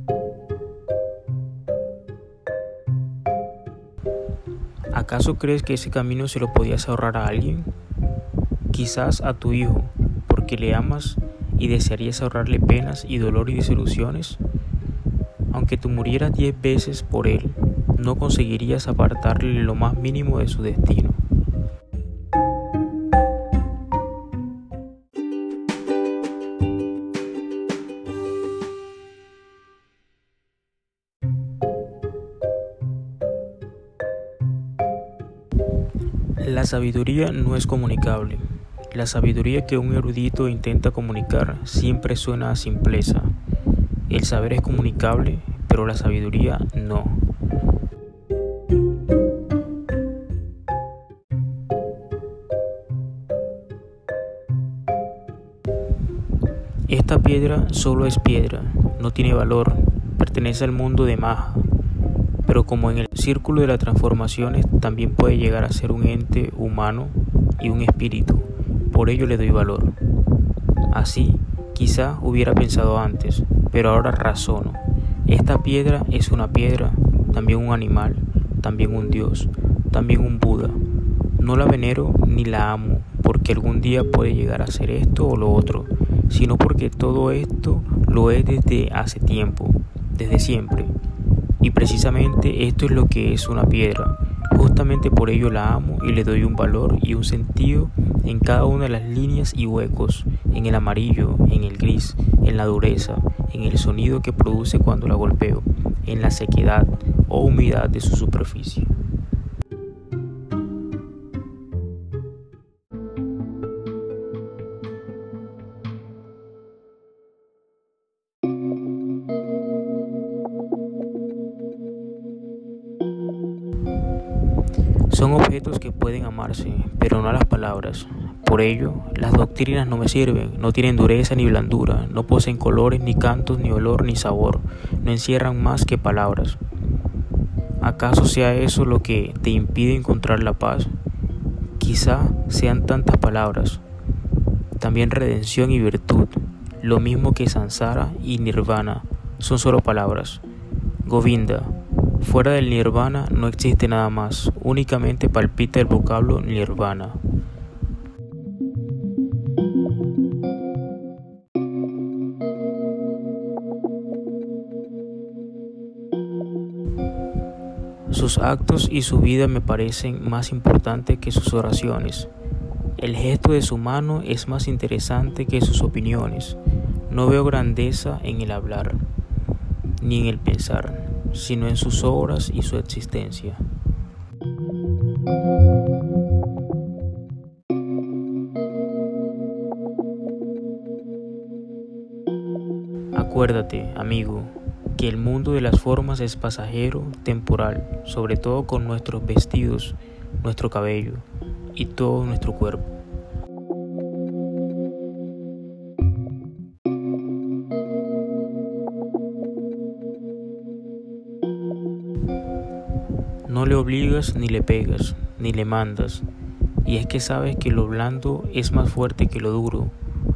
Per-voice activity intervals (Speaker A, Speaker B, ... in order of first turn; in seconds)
Speaker A: 4.9-7.7, 8.7-14.4, 15.5-21.2, 36.4-43.4, 44.1-47.3, 56.9-61.7, 62.4-70.0, 70.9-80.8, 81.4-90.9, 91.6-108.9, 125.1-136.6, 137.8-140.9, 141.8-143.8, 144.8-150.4, 151.1-157.2, 168.1-172.3, 173.0-179.1, 180.0-183.6, 193.1-202.9, 213.5-216.3, 216.8-219.9